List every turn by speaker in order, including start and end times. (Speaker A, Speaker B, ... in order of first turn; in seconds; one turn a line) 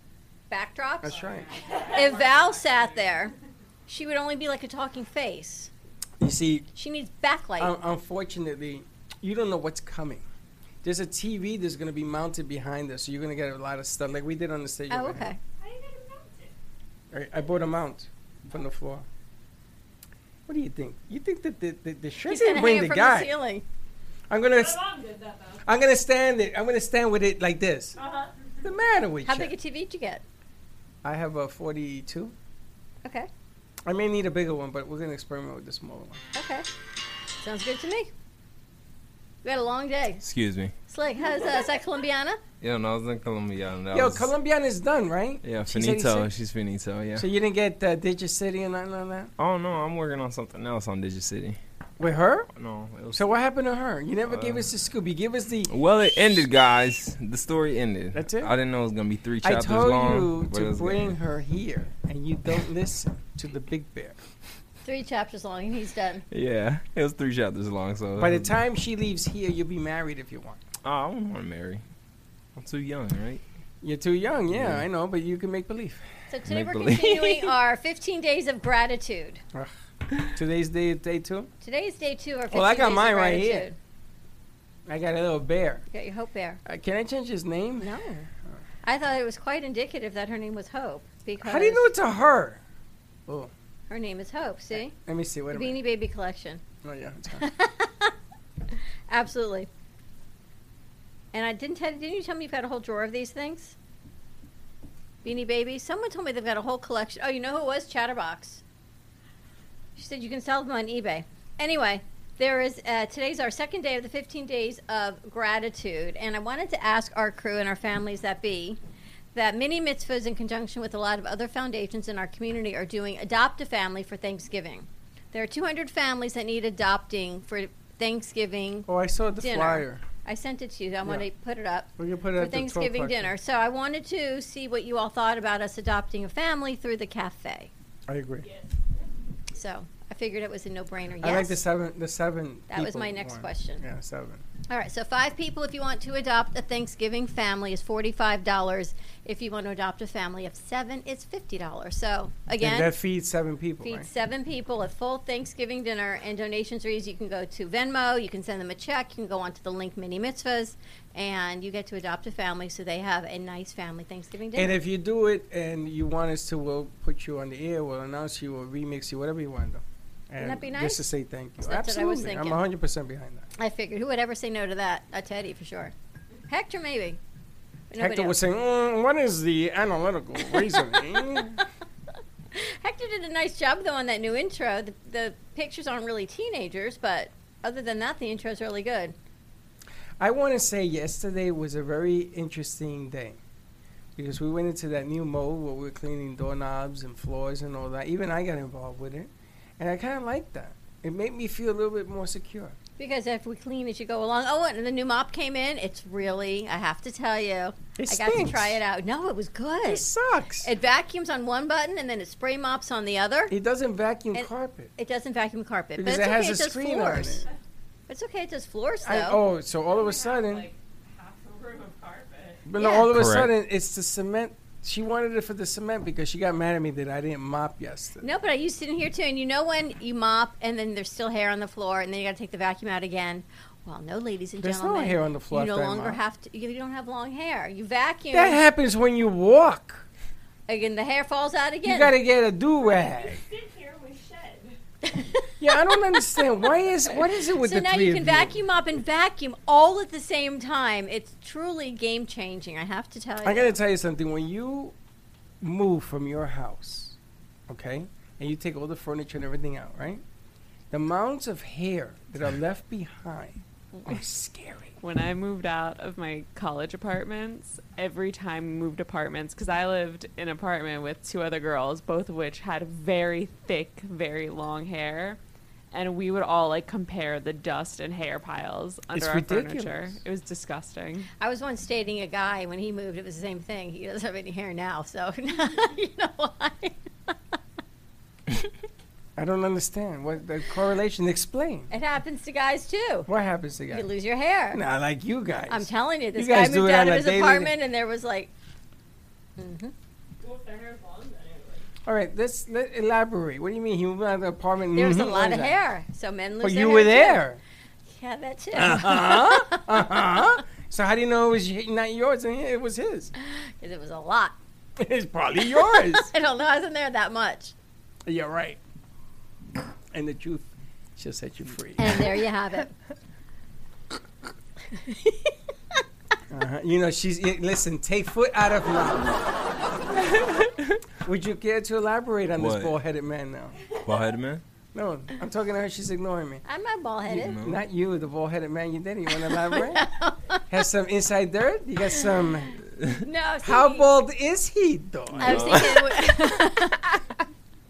Speaker A: 0.5-3.3
Speaker B: 1.0-1.5
Speaker C: 1.0-3.3
Speaker A: 3.9-5.7
Speaker B: 6.2-6.7
Speaker A: 6.7-7.8
Speaker B: 7.6-10.2
Speaker B: 10.8-15.3
Speaker A: 14.9-15.4
Speaker C: 15.6-16.5
Speaker B: 17.1-19.1
Speaker B: 20.5-23.3
Speaker A: 22.2-23.6
Speaker B: 24.3-24.8
Speaker C: 24.5-25.7
Speaker B: 25.6-28.0
Speaker C: 27.9-28.5
Speaker B: 28.6-29.5
Speaker A: 29.2-30.2
Speaker B: 31.0-32.3
Speaker A: 33.0-33.3
Speaker B: 33.9-36.2
Speaker A: 36.3-36.7
Speaker A: 37.4-38.1
Speaker A: 39.4-40.2
Speaker D: 40.2-40.7
Speaker A: 40.9-42.4
Speaker D: 42.6-44.3
Speaker B: 43.9-46.3
Speaker D: 45.4-47.3
Speaker B: 47.1-49.3
Speaker D: 49.4-51.6
Speaker B: 52.0-52.5
Speaker D: 52.5-53.4
Speaker B: 53.1-55.7
Speaker D: 54.3-54.7
Speaker D: 55.7-61.1
Speaker B: 58.1-58.5
Speaker B: 59.4-64.2
Speaker A: 64.8-66.2
Speaker D: 66.3-68.6
Speaker B: 68.2-70.6
Speaker D: 70.8-71.8
Speaker D: 72.5-73.4
Speaker B: 73.8-76.0
Speaker D: 74.5-74.8
Speaker A: 76.3-79.4
Speaker D: 76.5-77.5
Speaker B: 80.3-81.5
Speaker A: 81.6-83.8
Speaker B: 82.5-83.7
Speaker B: 84.9-85.8
Speaker A: 85.9-86.6
Speaker B: 86.7-87.9
Speaker A: 87.8-88.3
Speaker A: 88.8-91.9
Speaker B: 91.4-92.6
Speaker B: 93.3-93.5
Speaker A: 93.9-94.9
Speaker B: 94.7-95.8
Speaker A: 95.5-96.6
Speaker B: 96.8-97.5
Speaker A: 97.4-98.1
Speaker A: 99.1-99.7
Speaker A: 101.3-103.8
Speaker A: 105.2-108.6
Speaker A: 110.0-118.8
Speaker A: 119.3-137.7
Speaker B: 128.9-130.0
Speaker B: 132.0-133.3
Speaker B: 138.1-138.5
Speaker C: 138.4-139.1
Speaker A: 139.5-141.6
Speaker B: 141.2-144.4
Speaker A: 142.7-143.8
Speaker A: 144.7-152.9
Speaker B: 152.6-154.1
Speaker A: 153.8-164.8
Speaker B: 164.5-173.5
Speaker A: 170.4-171.1
Speaker A: 171.6-172.6
Speaker A: 173.6-175.9
Speaker A: 176.5-177.2
Speaker A: 177.9-178.4
Speaker B: 178.0-181.6
Speaker A: 182.5-189.1
Speaker B: 190.2-193.4
Speaker B: 194.2-202.8
Speaker A: 203.0-210.1
Speaker B: 208.0-208.8
Speaker B: 209.8-210.7
Speaker A: 210.6-213.5
Speaker B: 213.5-214.9
Speaker A: 214.3-217.4
Speaker B: 215.9-217.4
Speaker A: 218.1-219.4
Speaker B: 219.0-220.7
Speaker C: 219.9-222.7
Speaker B: 222.7-228.3
Speaker A: 222.8-223.1
Speaker D: 223.1-223.5
Speaker A: 228.2-238.6
Speaker B: 234.6-236.2
Speaker B: 238.3-240.1
Speaker A: 240.7-242.1
Speaker B: 241.8-243.4
Speaker C: 242.8-244.8
Speaker A: 245.1-245.9
Speaker B: 245.6-248.6
Speaker A: 247.5-253.8
Speaker B: 253.4-254.9
Speaker B: 255.6-257.1
Speaker B: 257.7-260.2
Speaker B: 260.9-265.0
Speaker E: 265.0-275.4
Speaker E: 275.9-281.3
Speaker B: 279.1-280.2
Speaker A: 281.4-287.4
Speaker B: 289.4-291.9
Speaker A: 291.9-293.3
Speaker B: 293.3-294.1
Speaker A: 293.9-294.8
Speaker B: 294.7-297.7
Speaker A: 295.7-298.5
Speaker A: 299.6-299.9
Speaker C: 300.4-301.9
Speaker B: 302.1-305.8
Speaker A: 304.9-307.4
Speaker B: 306.6-307.6
Speaker A: 308.1-310.2
Speaker B: 308.7-313.3
Speaker A: 313.4-314.5
Speaker B: 315.0-316.3
Speaker A: 315.6-317.7
Speaker B: 318.2-318.8
Speaker B: 320.1-322.3
Speaker A: 322.0-322.9
Speaker A: 324.9-326.0
Speaker B: 326.5-329.4
Speaker D: 330.4-331.0
Speaker B: 331.2-333.8
Speaker D: 332.6-332.9
Speaker D: 334.0-334.6
Speaker B: 334.9-336.6
Speaker A: 336.6-337.6
Speaker D: 337.3-337.8
Speaker B: 337.4-340.1
Speaker A: 339.4-340.6
Speaker B: 340.7-342.8
Speaker A: 343.2-344.1
Speaker B: 343.6-346.0
Speaker A: 345.4-347.1
Speaker D: 345.4-346.3